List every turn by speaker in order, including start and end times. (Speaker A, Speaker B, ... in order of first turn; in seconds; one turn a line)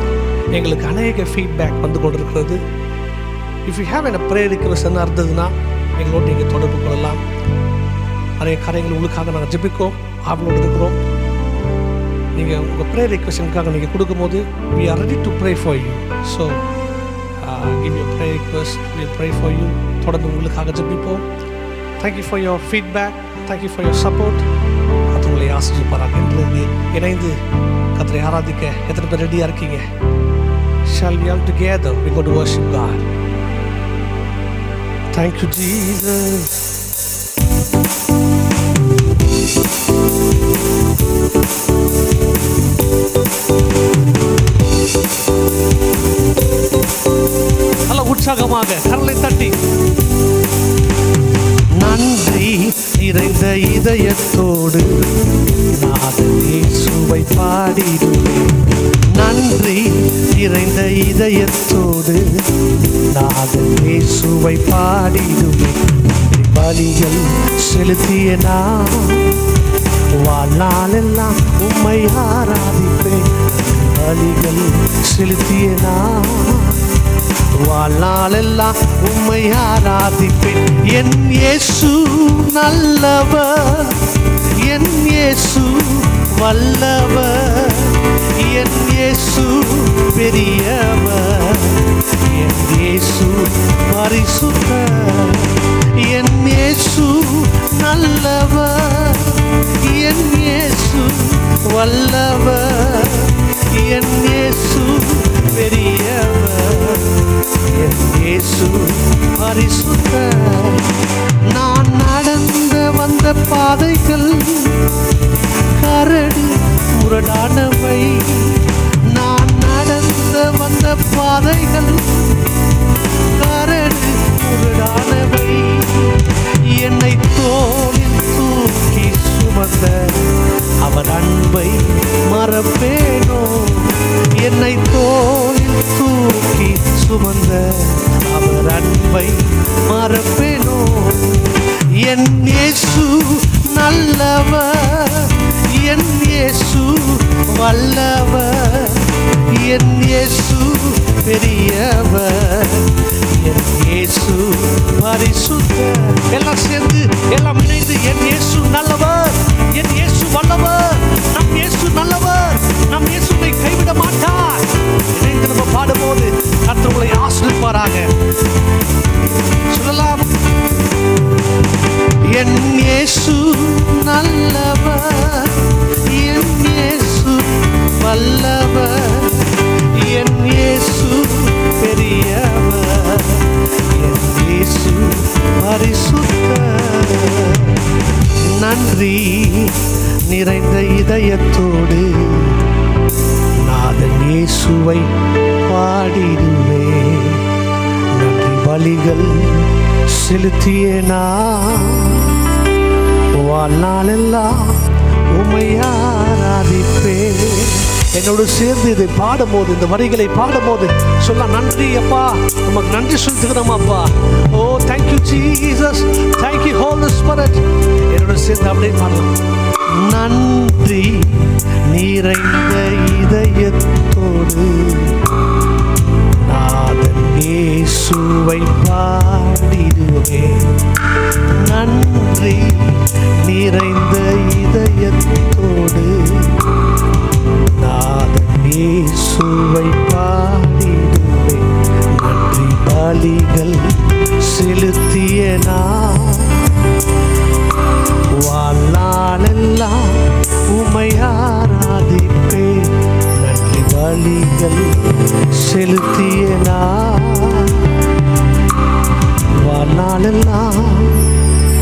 Speaker A: 0.5-2.6
Speaker A: 3.6-7.2
Speaker A: 8.4-11.0
Speaker A: 12.3-16.6
Speaker A: 17.4-21.2
Speaker A: 22.0-24.4
Speaker A: 25.1-27.3
Speaker A: 27.9-29.8
Speaker A: 30.9-33.1
Speaker A: 35.1-36.6
Speaker A: 47.9-49.5
Speaker A: 51.8-54.9
Speaker A: 55.7-62.3
Speaker A: 63.1-69.4
Speaker A: 70.2-76.8
Speaker A: 77.5-114.9
Speaker A: 115.7-122.5
Speaker A: 123.3-168.1
Speaker A: 169.7-170.3
Speaker A: 172.3-187.9
Speaker A: 188.5-192.7
Speaker A: 193.6-195.1
Speaker A: 195.7-197.4
Speaker A: 198.1-202.4
Speaker A: 203.3-204.8
Speaker A: 205.3-219.3
Speaker A: 219.9-225.2
Speaker A: 226.4-230.8
Speaker A: 231.5-236.6
Speaker A: 237.7-246.8
Speaker A: 248.3-258.0
Speaker A: 259.6-261.3